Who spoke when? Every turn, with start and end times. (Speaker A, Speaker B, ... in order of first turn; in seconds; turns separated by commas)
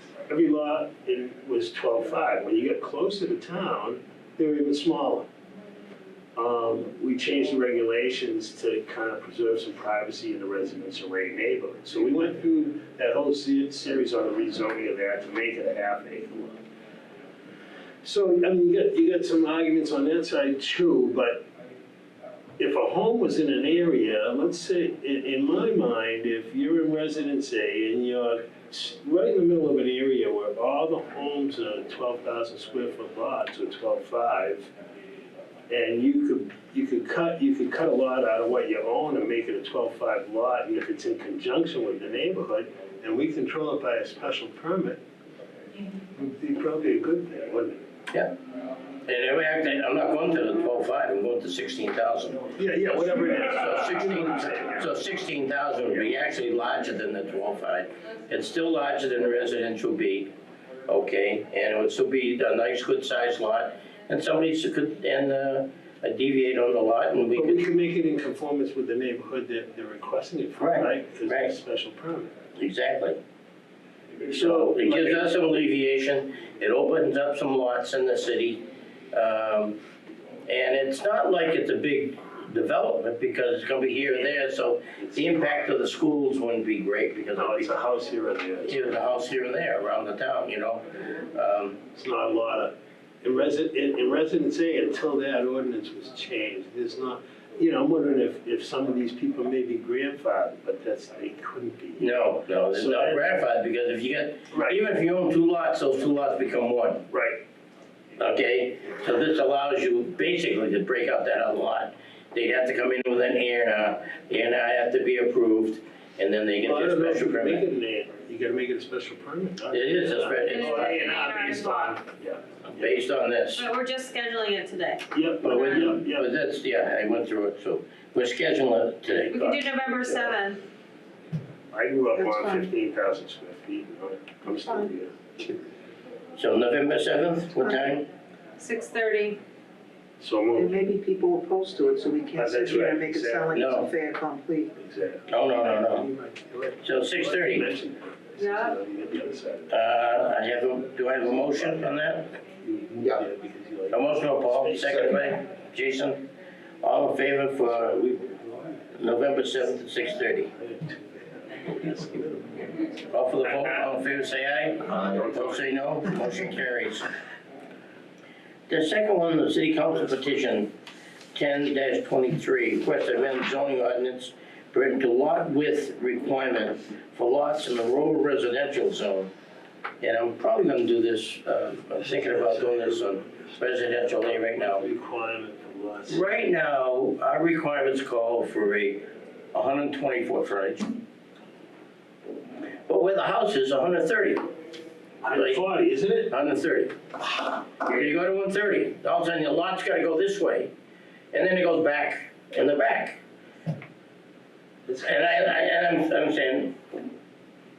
Speaker A: 0.3-5.3, Speaker A: 6.4-16.6, Speaker A: 18.0-21.4, Speaker A: 22.6-34.7, Speaker A: 35.7-45.0, Speaker A: 46.1-47.8, Speaker B: 49.1-60.3, Speaker A: 52.5-54.9, Speaker B: 60.9-67.7, Speaker A: 67.3-72.3, Speaker B: 70.6-71.5, Speaker B: 72.6-73.2, Speaker A: 74.2-75.4, Speaker B: 74.3-79.8, Speaker B: 80.5-87.8, Speaker A: 84.1-84.3, Speaker A: 85.0-85.7, Speaker A: 87.3-88.8, Speaker B: 88.7-91.8, Speaker A: 91.9-103.2, Speaker B: 102.0-107.1, Speaker A: 104.5-104.8, Speaker A: 107.1-107.4, Speaker B: 108.2-117.7, Speaker A: 116.6-122.9, Speaker B: 119.7-120.9, Speaker C: 120.4-122.0, Speaker B: 122.7-123.7, Speaker C: 123.6-126.0, Speaker A: 125.1-126.3, Speaker B: 125.4-129.8, Speaker C: 129.3-130.6, Speaker A: 131.7-135.1, Speaker D: 132.2-132.7, Speaker D: 134.6-134.9, Speaker B: 136.4-138.1, Speaker C: 138.6-139.4, Speaker A: 140.2-140.7, Speaker D: 140.6-144.7, Speaker A: 142.3-143.6, Speaker B: 143.5-143.9, Speaker A: 144.8-149.8, Speaker B: 145.3-146.1, Speaker B: 146.8-147.7, Speaker C: 148.4-148.8, Speaker B: 149.7-152.3, Speaker A: 151.4-155.4, Speaker B: 153.9-156.3, Speaker B: 156.8-158.0, Speaker A: 157.7-158.8, Speaker B: 159.0-160.5, Speaker A: 160.5-162.9, Speaker B: 163.1-167.1, Speaker A: 164.9-165.6, Speaker B: 168.7-170.7, Speaker B: 171.3-179.3, Speaker B: 180.0-184.9, Speaker A: 182.2-186.3, Speaker B: 186.1-191.0, Speaker B: 192.9-194.5, Speaker A: 195.2-196.3, Speaker B: 195.3-195.7, Speaker B: 196.3-197.0, Speaker B: 197.8-200.7, Speaker B: 201.3-203.2, Speaker A: 204.9-205.7, Speaker B: 205.0-206.8